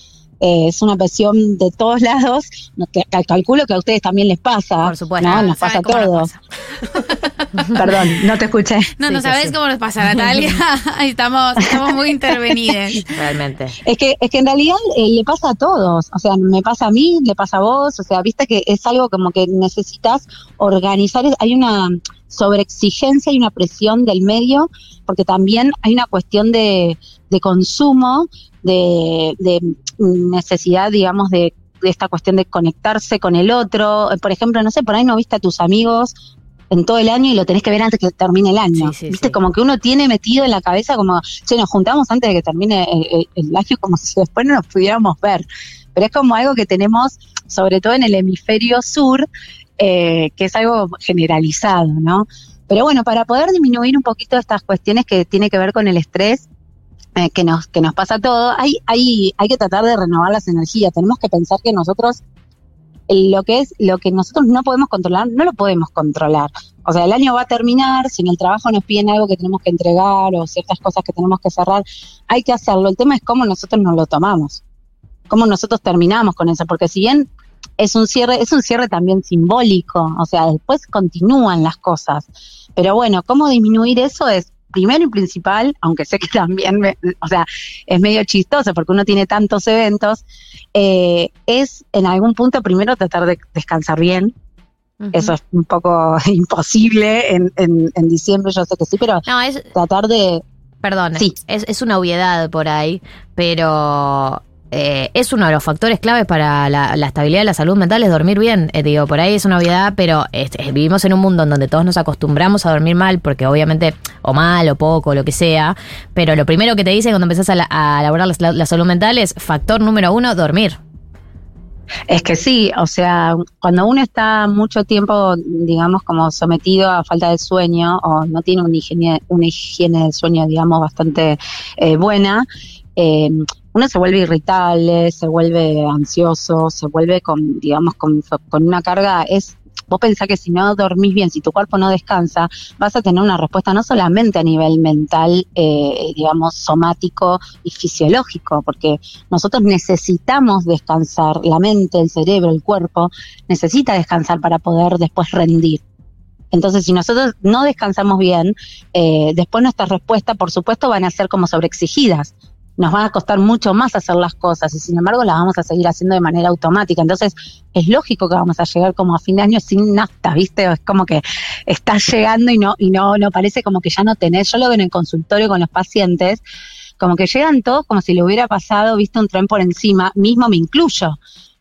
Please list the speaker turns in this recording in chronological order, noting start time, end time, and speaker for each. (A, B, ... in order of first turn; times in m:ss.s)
0:00.4-0:06.3 A
0:04.8-0:05.6 B
0:05.2-0:07.4 C
0:07.6-0:07.8 B
0:07.8-0:08.9 A
0:09.0-0:13.1 C
0:09.1-0:09.6 B
0:12.3-0:12.6 A
0:13.1-0:13.8 B
0:13.8-0:36.1 A
0:36.7-0:49.3 A
0:38.7-0:39.4 B
0:49.8-0:56.5 A
0:57.2-1:02.2 A
1:03.1-1:14.6 A
1:15.3-1:30.2 A
1:30.7-1:34.3 A
1:35.0-1:35.3 B
1:35.1-1:40.4 A
1:39.2-1:39.7 B
1:40.8-2:00.8 B
2:02.1-2:12.4 A
2:13.0-2:35.8 A
2:36.5-2:56.4 A
2:57.0-3:01.2 A